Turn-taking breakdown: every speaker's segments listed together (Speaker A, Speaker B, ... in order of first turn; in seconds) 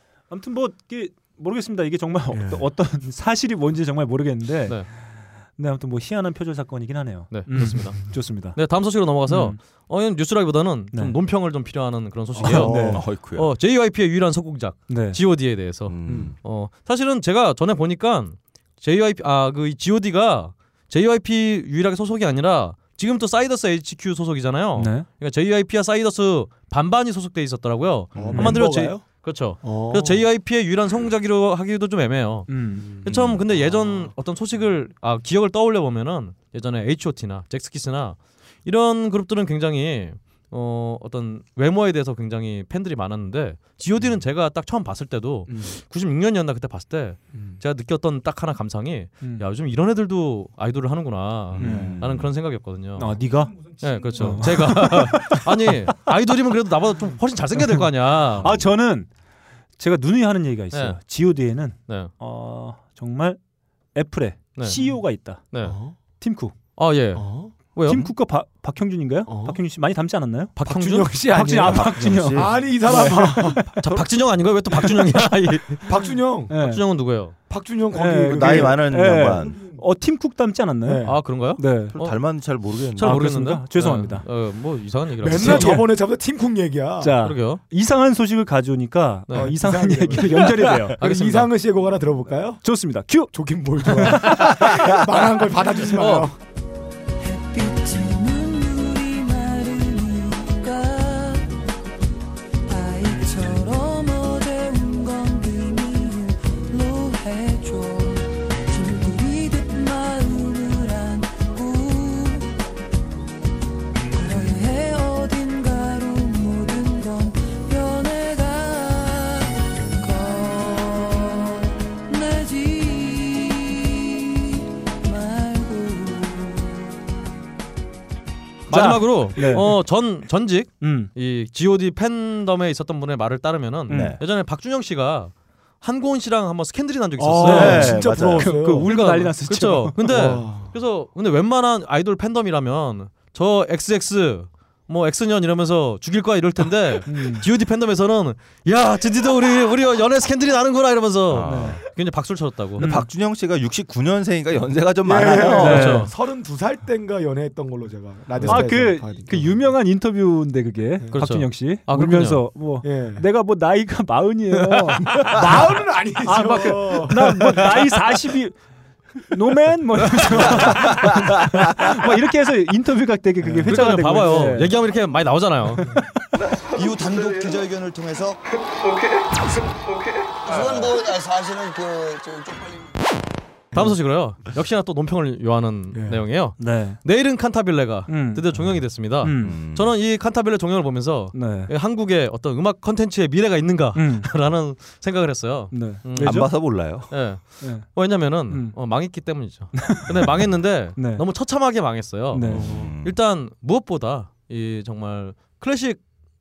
Speaker A: 0.3-8.6, 9.3-9.6, 12.5-13.1, 14.9-15.2, 24.8-25.1, 28.3-28.7, 32.5-32.9, 49.2-49.5, 51.6-51.9, 53.0-56.1, 57.5-57.9, 58.4-59.1, 59.8-63.4, 64.0-65.4, 66.2-66.6, 67.9-70.5, 71.2-74.0, 74.7-75.3, 76.5-76.8, 77.9-82.0, 83.0-84.2, 85.2-85.9, 87.0-91.0, 92.6-93.3, 93.9-94.9, 128.7-129.7, 130.8-131.1, 133.9-134.2, 137.4-140.0, 147.1-147.5, 151.5-151.8, 152.8-153.1, 155.4-156.1, 158.4-168.6, 169.2-174.8, 186.6-187.0, 188.1-188.4, 189.2-189.6, 191.3-191.7, 193.9-194.3, 195.7-196.5, 197.6-197.9, 198.5-198.8, 199.7-201.2, 202.3-202.7
Speaker B: 2.3-2.6, 12.4-13.1, 16.1-16.3, 28.1-30.3, 32.8-33.3, 45.5-45.7, 47.3-47.6, 53.8-54.4, 65.6-66.0, 67.2-67.5, 69.3-69.6, 70.6-73.8, 75.9-76.5, 77.5-79.8, 80.8-81.2, 85.2-87.2, 89.3-92.6, 93.3-96.4, 137.2-138.9, 140.1-140.8, 155.0-159.5, 162.8-163.2, 165.1-167.9, 173.4-173.7, 185.9-186.2, 202.5-202.9
Speaker C: 7.3-53.2, 53.8-58.5, 60.7-61.0, 65.5-65.8, 66.8-68.1, 70.6-71.8, 73.0-76.0, 76.5-77.4, 81.0-82.4, 83.0-85.9, 87.2-87.6, 91.0-91.5, 95.9-96.3, 128.7-138.0, 138.8-152.9, 155.3-156.1, 161.1-162.5, 173.7-176.0, 183.7-206.0
Speaker D: 12.4-13.5, 15.9-16.4, 33.1-33.7, 51.5-52.3, 71.7-72.5, 78.3-79.6, 81.9-83.4, 133.9-134.2, 137.4-138.7, 151.3-151.8, 152.8-156.0, 158.4-158.7, 189.4-190.0, 196.2-197.1, 202.5-203.2
Speaker E: 97.2-101.5, 102.7-112.5, 114.1-127.0
Speaker F: 176.7-178.4, 180.4-183.0